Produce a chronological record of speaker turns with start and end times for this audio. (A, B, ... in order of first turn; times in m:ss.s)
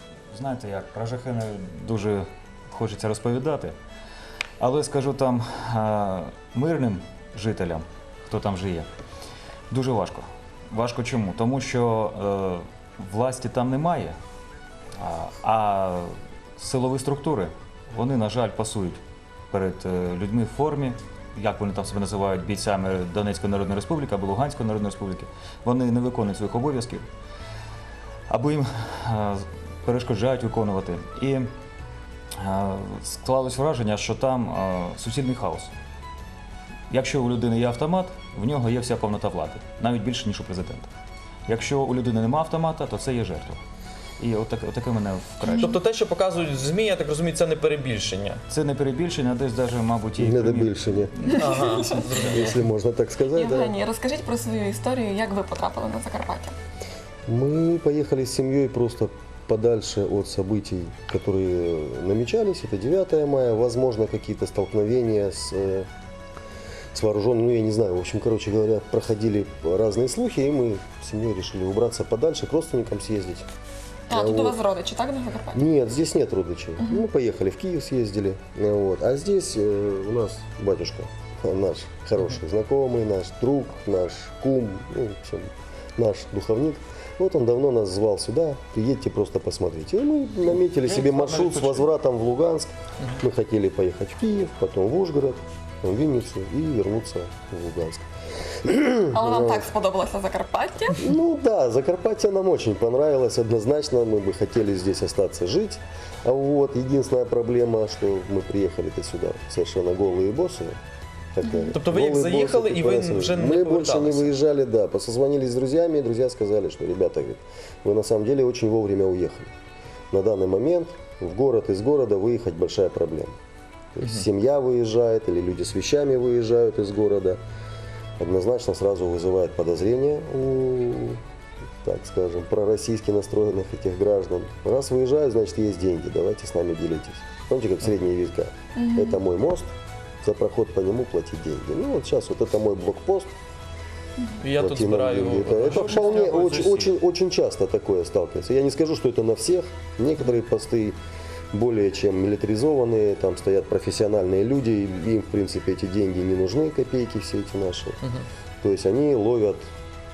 0:00.3-0:03.7 A
0:04.6-0:08.9 A
0:09.7-0:14.2 A
0:15.0-0:19.0 A
0:19.5-0:27.0 A
0:28.3-0:31.5 A
0:32.4-0:35.7 A
0:36.9-0:40.9 A
0:41.5-0:43.6 A
0:44.2-0:45.6 A
0:45.4-0:48.4 B
0:45.4-0:45.7 C
0:48.5-0:52.4 A
0:50.2-0:51.2 D
0:51.3-0:52.0 C
0:51.3-0:52.6 B
0:52.3-0:53.7 D
0:53.3-0:56.5 C
0:57.3-1:05.9 D
1:06.9-1:13.5 D
1:14.1-1:15.6 C
1:14.1-1:14.6 D
1:15.5-1:38.0 D
1:30.5-1:31.9 A
1:38.6-1:39.7 D
1:39.1-1:41.0 C
1:41.0-1:50.7 D
1:51.3-1:59.5 D
1:51.4-1:51.7 C
1:51.7-1:54.3 B
2:00.1-2:03.3 D
2:04.0-2:07.4 D
2:08.2-2:11.2 D
2:11.8-2:19.7 D
2:18.8-2:19.2 C
2:20.2-2:23.3 D
2:24.4-2:26.0 B
2:24.6-2:31.0 D
2:25.6-2:26.9 A
2:31.5-2:38.0 D
2:38.6-2:39.6 D